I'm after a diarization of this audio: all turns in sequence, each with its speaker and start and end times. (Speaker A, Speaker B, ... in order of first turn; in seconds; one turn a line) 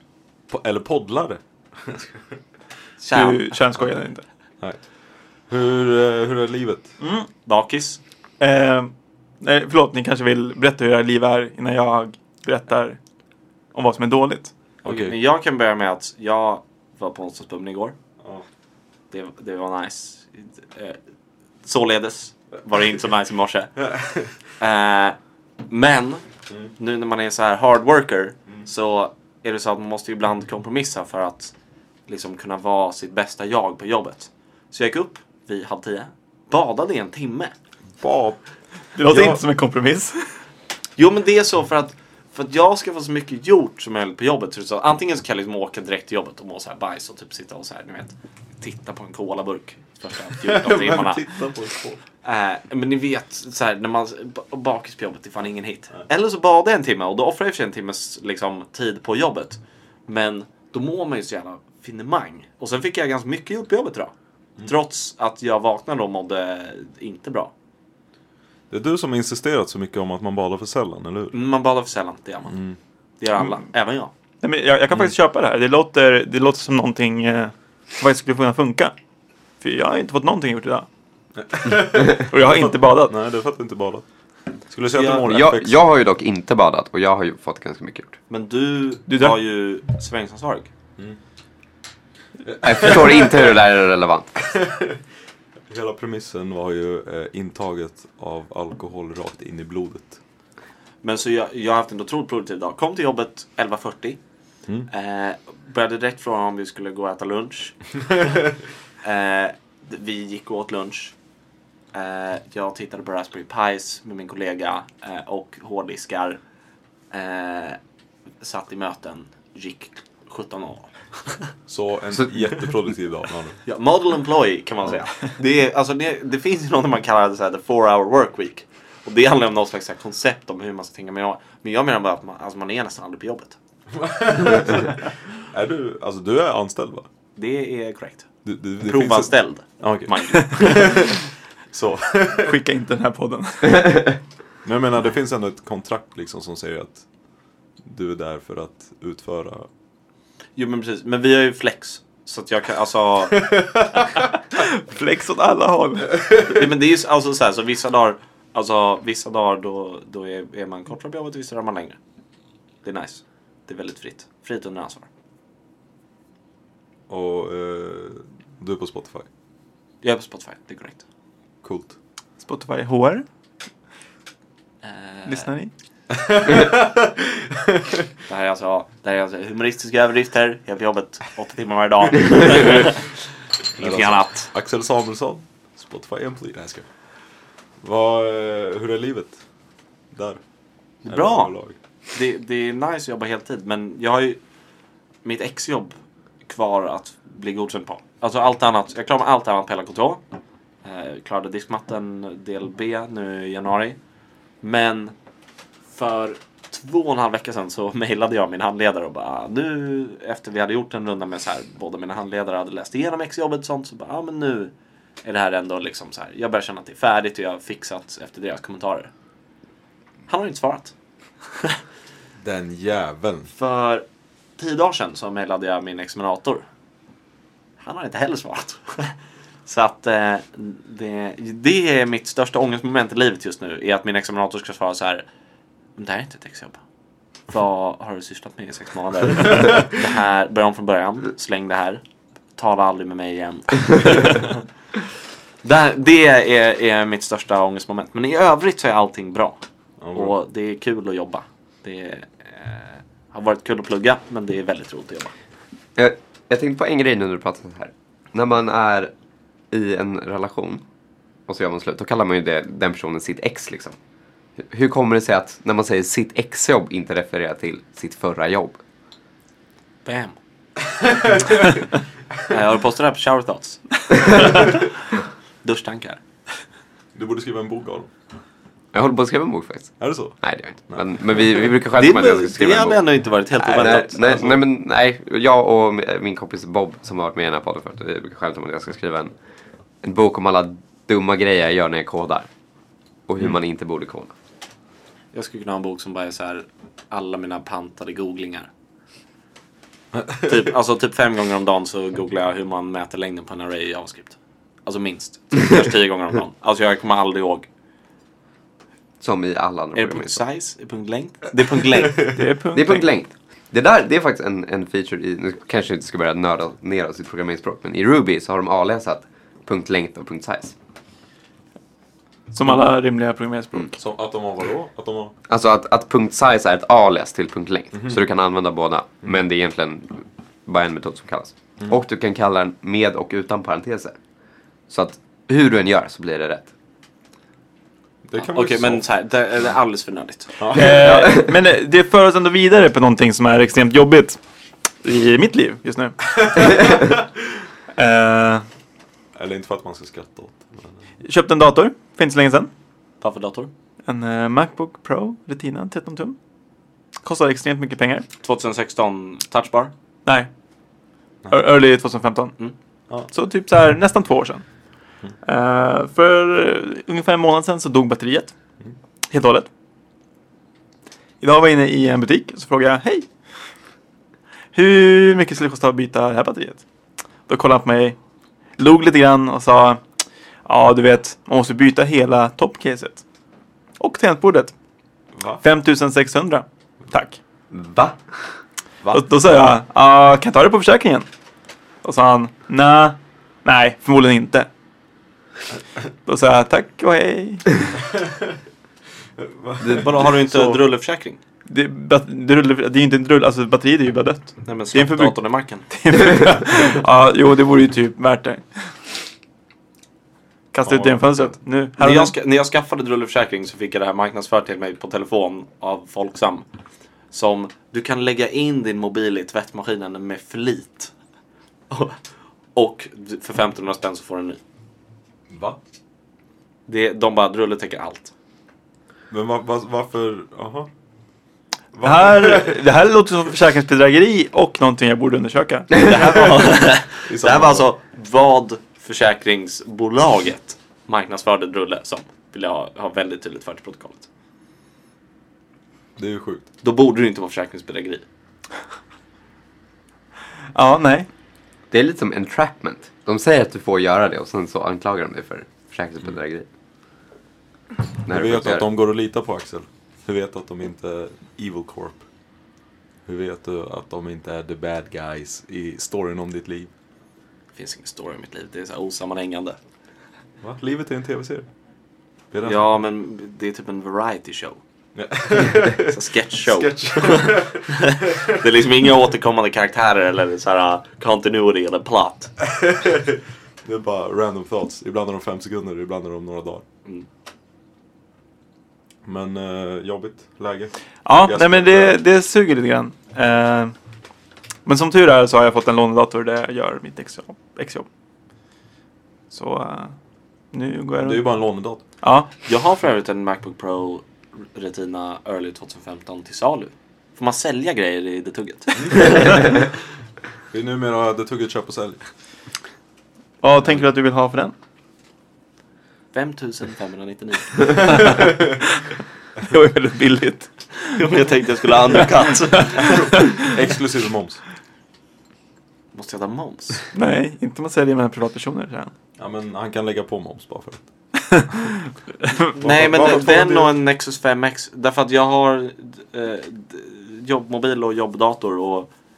Speaker A: 0.5-2.2
Speaker B: 3.0-3.6
Speaker C: 3.1-4.2
Speaker A: 5.5-6.9
Speaker C: 7.0-7.3
Speaker B: 7.4-8.0
Speaker C: 8.4-13.0
Speaker C: 13.7-14.5
Speaker B: 14.8-17.9
Speaker A: 14.8-15.1
Speaker B: 19.1-21.0
Speaker B: 21.6-23.8
Speaker A: 23.8-24.3
Speaker B: 24.6-25.2
Speaker B: 25.7-26.2
Speaker B: 26.8-31.5
Speaker B: 32.1-37.5
Speaker A: 38.0-38.4
Speaker C: 39.0-40.3
Speaker A: 39.0-39.4
Speaker B: 41.0-51.3
Speaker A: 50.4-52.0
Speaker B: 52.2-67.5
Speaker A: 68.7-71.4
Speaker B: 71.3-72.6
Speaker A: 72.5-72.8
Speaker B: 73.2-74.1
Speaker C: 74.4-78.9
Speaker C: 79.6-80.9
Speaker A: 81.3-84.0
Speaker C: 82.0-83.1
Speaker A: 84.7-85.8
Speaker B: 84.9-85.3
Speaker D: 85.2-88.2
Speaker B: 88.3-90.7
Speaker C: 89.1-89.4
Speaker A: 92.5-93.5
Speaker D: 92.6-94.4
Speaker A: 94.4-95.0
Speaker A: 95.7-100.2
Speaker B: 101.0-104.2
Speaker B: 104.9-107.8
Speaker B: 109.0-111.1
Speaker B: 111.9-116.4
Speaker B: 117.1-117.8
Speaker B: 118.4-121.5
Speaker A: 121.7-123.6
Speaker B: 123.6-133.6
Speaker A: 133.9-137.1
Speaker B: 137.3-138.3
Speaker A: 138.4-142.6
Speaker B: 138.8-141.1
Speaker C: 142.4-144.2
Speaker A: 144.6-147.0
Speaker A: 147.8-149.7
Speaker B: 150.6-153.5
Speaker A: 153.4-154.0
Speaker C: 154.5-156.2
Speaker B: 156.4-162.0
Speaker B: 162.8-165.1
Speaker A: 167.1-169.3
Speaker B: 170.0-171.0
Speaker A: 171.6-171.9
Speaker C: 172.4-173.2
Speaker B: 174.8-175.5
Speaker C: 175.2-175.7
Speaker A: 176.1-178.0
Speaker B: 178.3-183.1
Speaker B: 183.8-184.5
Speaker A: 183.8-186.9
Speaker A: 187.8-189.4
Speaker A: 190.1-190.4
Speaker B: 191.0-191.5
Speaker A: 191.1-191.8
Speaker B: 192.1-194.4
Speaker B: 195.2-200.2
Speaker B: 200.8-204.0
Speaker B: 204.6-205.1
Speaker B: 205.9-214.7
Speaker B: 215.2-219.1
Speaker B: 220.3-220.9
Speaker A: 222.4-223.5
Speaker B: 223.5-224.0
Speaker B: 224.6-226.6
Speaker B: 227.8-229.1
Speaker B: 229.7-235.2
Speaker B: 235.9-236.8
Speaker B: 237.5-242.0
Speaker B: 242.6-244.5
Speaker B: 245.6-249.6
Speaker A: 250.0-250.3
Speaker B: 250.1-255.3
Speaker D: 255.9-259.1
Speaker D: 259.7-260.8
Speaker D: 261.5-263.9
Speaker D: 264.6-268.8
Speaker B: 270.0-270.4
Speaker A: 271.0-271.6
Speaker B: 272.5-274.8
Speaker B: 275.6-276.2
Speaker A: 277.1-278.1
Speaker D: 278.9-283.0
Speaker A: 280.0-281.7
Speaker B: 281.9-284.6
Speaker D: 283.6-289.3
Speaker D: 290.0-292.5
Speaker D: 293.3-294.3
Speaker B: 295.3-298.7
Speaker A: 300.1-300.5
Speaker B: 300.4-307.7
Speaker D: 309.2-310.4
Speaker B: 309.9-312.3
Speaker C: 312.1-313.1
Speaker D: 312.7-320.7
Speaker C: 322.5-323.9
Speaker A: 324.0-325.3
Speaker D: 325.5-334.1
Speaker A: 327.9-328.2
Speaker D: 334.9-336.7
Speaker A: 338.2-339.0
Speaker B: 338.4-340.6
Speaker A: 340.6-341.2
Speaker C: 340.7-344.4
Speaker D: 340.8-341.5
Speaker C: 345.0-347.2
Speaker C: 347.9-348.6
Speaker A: 349.3-350.9
Speaker C: 351.2-352.7
Speaker B: 353.2-353.7
Speaker C: 354.1-356.4
Speaker C: 357.2-358.2
Speaker B: 358.4-359.9
Speaker C: 361.5-362.6
Speaker C: 363.3-364.6
Speaker C: 365.4-368.5
Speaker C: 369.3-369.7
Speaker C: 371.4-373.2
Speaker C: 374.7-376.8
Speaker C: 377.5-378.1
Speaker C: 378.8-380.0
Speaker C: 380.6-383.2
Speaker C: 384.0-384.7
Speaker A: 385.4-385.6
Speaker C: 385.6-387.4
Speaker D: 387.7-388.2
Speaker C: 389.1-391.2
Speaker C: 392.0-394.7
Speaker C: 396.2-397.9
Speaker A: 398.1-398.6
Speaker A: 399.4-400.8
Speaker B: 399.8-401.4
Speaker C: 401.7-408.9
Speaker B: 404.6-405.9
Speaker C: 410.7-412.3
Speaker A: 410.8-411.2
Speaker B: 412.0-416.6
Speaker B: 417.3-421.1
Speaker B: 421.9-422.1
Speaker B: 422.7-424.6
Speaker A: 425.5-425.8
Speaker B: 426.9-428.3
Speaker A: 429.3-430.9
Speaker A: 431.9-432.8
Speaker C: 432.0-436.6
Speaker B: 435.9-444.3
Speaker A: 437.2-437.9
Speaker A: 446.2-446.6
Speaker B: 446.8-448.2
Speaker C: 450.7-451.3
Speaker D: 451.9-456.7
Speaker D: 458.2-458.9
Speaker A: 458.2-462.2
Speaker A: 463.2-466.9
Speaker B: 467.7-469.8
Speaker A: 470.6-471.7
Speaker A: 472.5-472.9
Speaker B: 472.6-474.8
Speaker A: 475.1-478.5
Speaker B: 475.8-482.5
Speaker A: 482.6-486.8
Speaker A: 489.2-492.2
Speaker C: 491.2-493.9
Speaker C: 494.9-498.1
Speaker C: 499.5-500.1
Speaker C: 500.7-501.6
Speaker A: 501.2-502.0
Speaker C: 502.2-502.5
Speaker B: 502.6-509.8
Speaker A: 509.0-509.8
Speaker A: 510.7-512.2
Speaker C: 513.6-514.7
Speaker B: 516.3-518.4
Speaker C: 518.1-518.7
Speaker C: 519.6-521.3
Speaker B: 521.1-523.3
Speaker C: 522.1-523.7
Speaker A: 523.0-524.6
Speaker B: 526.1-527.1
Speaker C: 527.1-529.1
Speaker A: 529.4-531.1
Speaker C: 531.5-532.7
Speaker B: 532.7-539.1
Speaker A: 532.8-533.9